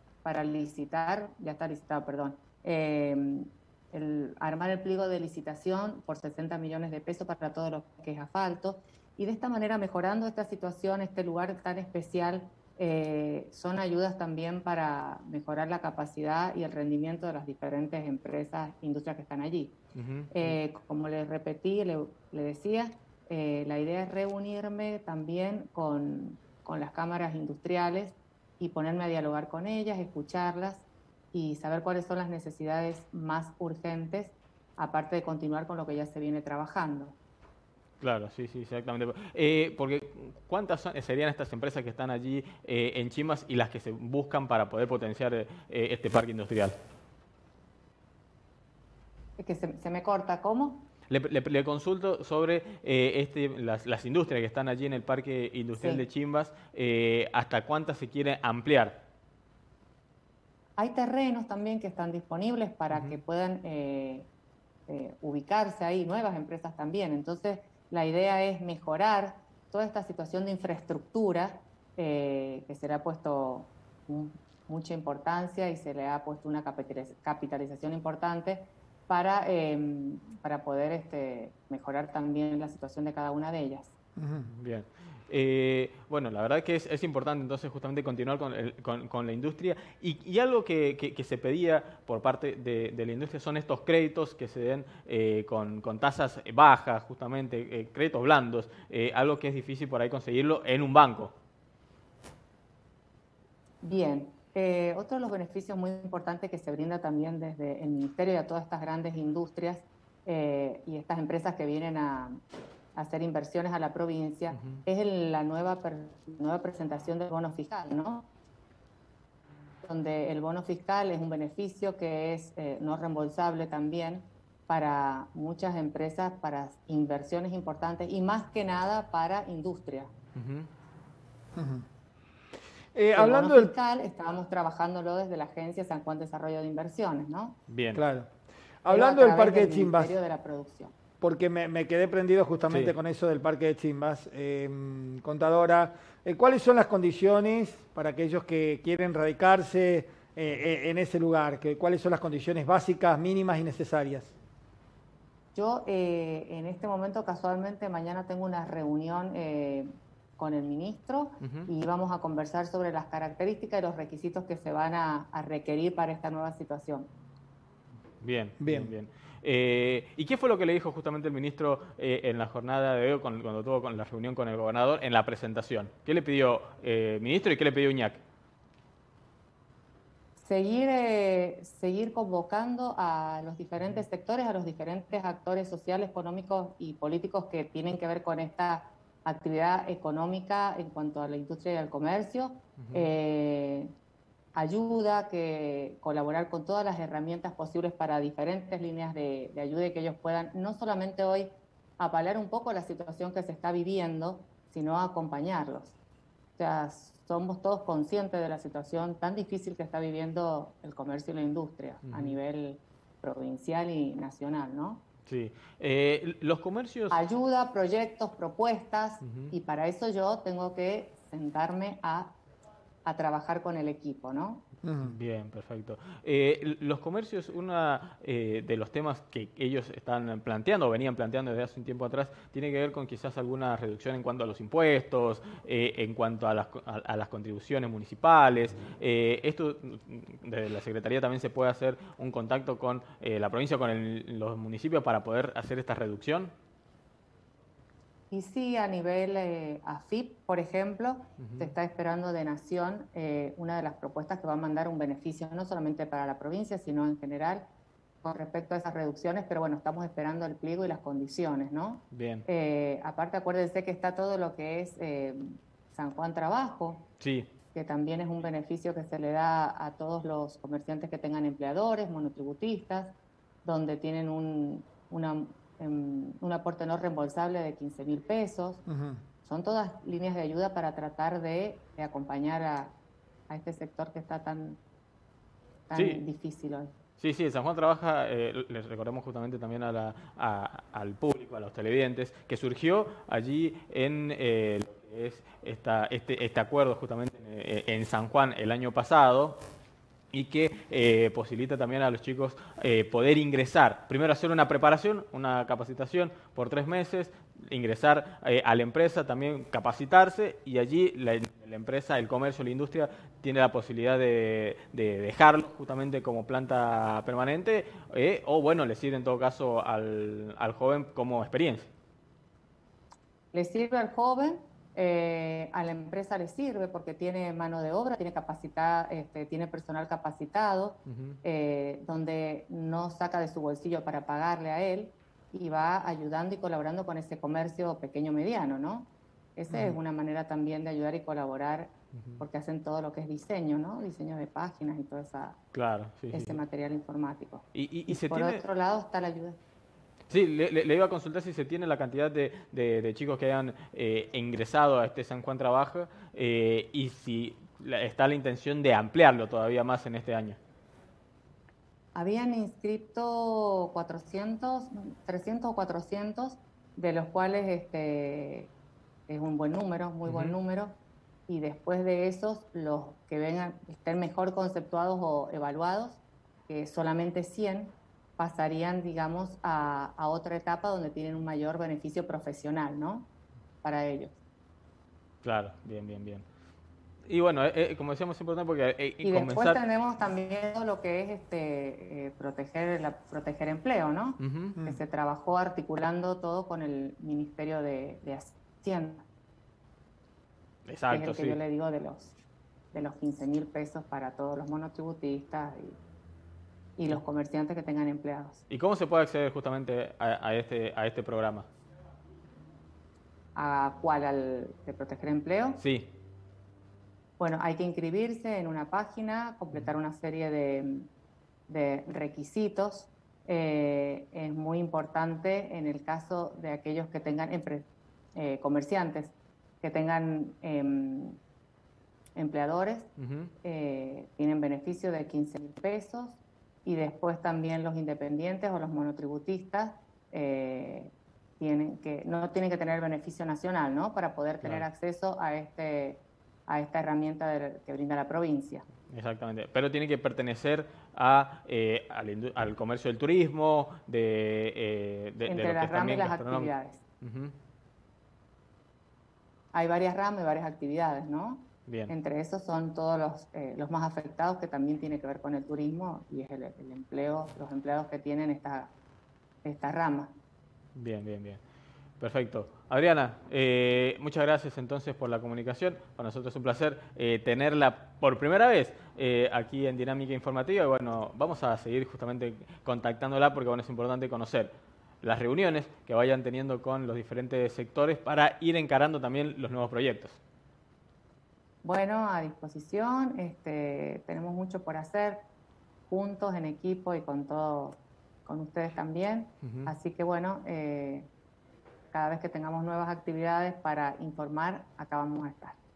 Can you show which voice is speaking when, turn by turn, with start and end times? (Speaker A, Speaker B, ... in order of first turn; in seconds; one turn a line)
Speaker A: 0.2-19.8
Speaker B: 19.9-20.6
Speaker A: 20.3-37.2
Speaker B: 38.0-46.7
Speaker A: 49.4-50.9
Speaker B: 51.1-59.0
Speaker A: 55.8-56.0
Speaker A: 60.8-64.3
Speaker B: 62.9-63.2
Speaker A: 64.9-83.9
Speaker C: 84.2-84.5
Speaker B: 84.5-101.3
Speaker A: 103.8-112.4
Speaker A: 113.0-118.3
Speaker B: 114.5-114.8
Speaker A: 119.8-130.1
Speaker B: 130.3-130.7
Speaker C: 131.6-131.8
Speaker C: 132.9-133.7
Speaker A: 133.1-137.6
Speaker B: 137.7-138.0
Speaker C: 137.9-138.3
Speaker C: 138.8-140.2
Speaker A: 138.9-140.9
Speaker C: 141.2-154.3
Speaker B: 142.7-143.0
Speaker A: 155.6-167.1
Speaker B: 161.4-161.7
Speaker B: 168.2-178.2
Speaker C: 168.6-168.9
Speaker A: 180.4-193.9
Speaker B: 183.8-184.0
Speaker B: 192.8-193.1
Speaker A: 194.6-205.9
Speaker A: 206.6-215.0
Speaker B: 212.1-212.4
Speaker B: 215.3-217.2
Speaker A: 217.1-222.4
Speaker B: 219.2-219.5
Speaker A: 223.1-224.7
Speaker C: 224.8-225.1
Speaker B: 225.0-246.5
Speaker A: 248.3-257.7
Speaker B: 251.4-251.7
Speaker A: 258.2-267.1
Speaker B: 262.1-262.4
Speaker B: 267.2-267.5
Speaker A: 267.7-278.8
Speaker C: 278.9-279.2
Speaker A: 279.4-282.9
Speaker A: 283.5-284.8
Speaker A: 285.9-286.9
Speaker B: 285.9-286.2
Speaker B: 287.2-299.6
Speaker B: 300.3-321.9
Speaker A: 323.5-345.6
Speaker B: 331.1-331.4
Speaker B: 345.7-346.6
Speaker A: 346.3-349.6
Speaker B: 347.7-348.6
Speaker B: 350.3-360.6
Speaker A: 362.1-368.7
Speaker A: 369.3-383.3
Speaker B: 370.2-370.6
Speaker A: 383.8-384.4
Speaker B: 385.4-386.4
Speaker B: 387.3-389.8
Speaker A: 389.2-399.2
Speaker B: 394.4-394.8
Speaker B: 400.9-401.6
Speaker A: 401.1-402.3
Speaker A: 402.9-406.0
Speaker A: 407.0-408.6
Speaker B: 408.7-411.7
Speaker A: 413.6-415.8
Speaker B: 415.8-416.1
Speaker A: 417.4-421.1
Speaker A: 421.7-431.4
Speaker A: 432.4-433.1
Speaker B: 433.2-433.5
Speaker A: 433.6-448.9
Speaker B: 449.1-457.5
Speaker A: 455.5-457.0
Speaker A: 459.7-468.9
Speaker B: 461.9-462.1
Speaker A: 469.6-470.3
Speaker B: 470.9-471.6
Speaker B: 472.2-490.4
Speaker A: 491.8-495.4
Speaker A: 496.1-501.3
Speaker B: 499.6-499.9
Speaker A: 502.1-505.8